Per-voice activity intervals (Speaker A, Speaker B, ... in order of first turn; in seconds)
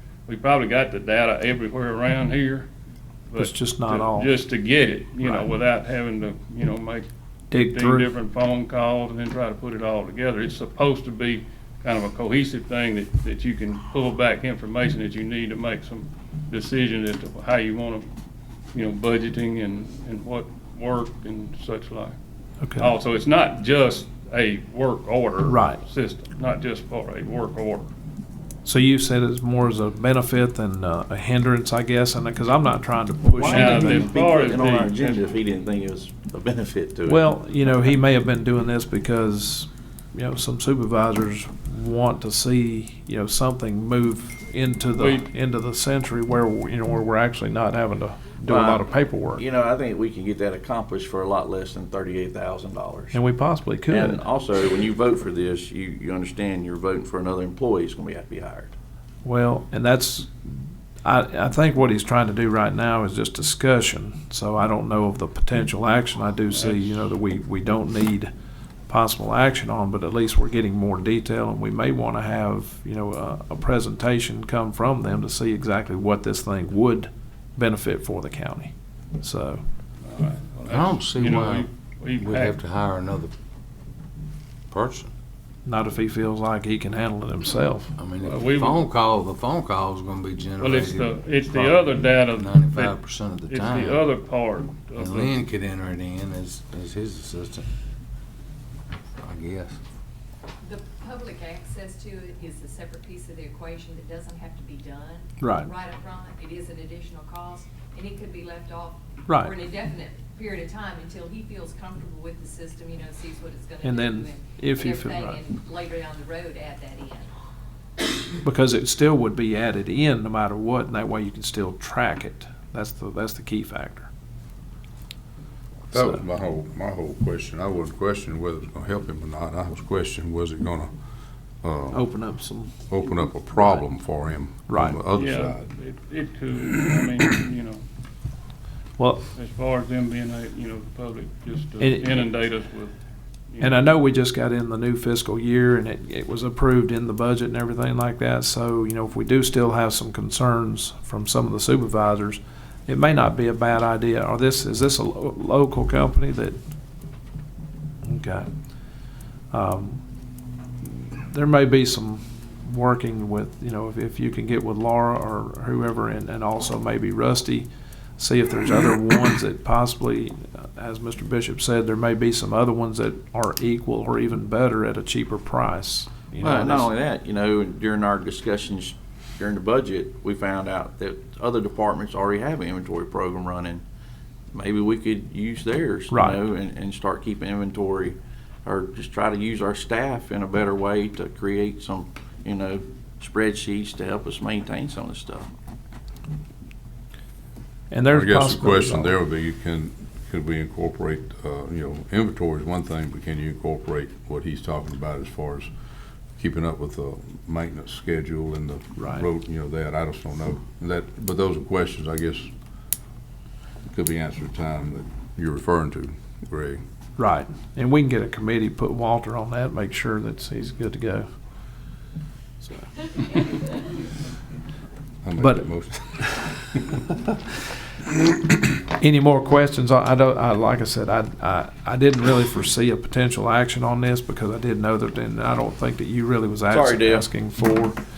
Speaker A: 0.3-2.7, 3.3-7.1, 7.7-18.1, 18.7-22.2, 22.8-27.9, 33.4-35.2, 45.0-45.3, 66.5-67.0, 80.1-82.6, 88.2-88.8, 90.6-93.0, 93.5-95.4, 135.2-137.8, 139.3-142.9, 143.5-143.9
Speaker B: 3.4-4.3, 5.2-5.5, 7.5-8.1, 22.6-22.9, 25.4-25.8, 28.6-34.1, 37.1-49.4, 53.1-54.2, 59.2-68.3, 68.9-79.6, 85.7-87.9, 105.4-105.7, 109.3-109.5, 113.8-115.4, 118.4-124.1, 125.9-126.2, 131.9-132.8, 134.7-135.0, 139.0-139.3, 141.8-142.3, 143.6-156.6, 158.0-158.5, 159.5-160.0, 160.8-167.7, 168.2-176.9, 186.1-186.4, 197.9-199.2, 209.0-209.3, 217.2-221.3, 222.6-223.6, 225.4-226.5, 228.9-238.0
Speaker C: 33.4-37.3, 48.5-53.2, 53.9-58.8, 176.4-183.8, 184.5-195.5, 236.7-237.2
Speaker D: 80.7-83.3, 84.7-85.1, 88.0-94.0, 95.0-97.7, 99.2-99.8
Speaker E: 100.6-117.3
Speaker F: 125.9-130.9, 131.6-132.0, 132.9-135.6, 198.1-205.7, 206.4-212.5, 213.9-216.8, 225.2-226.8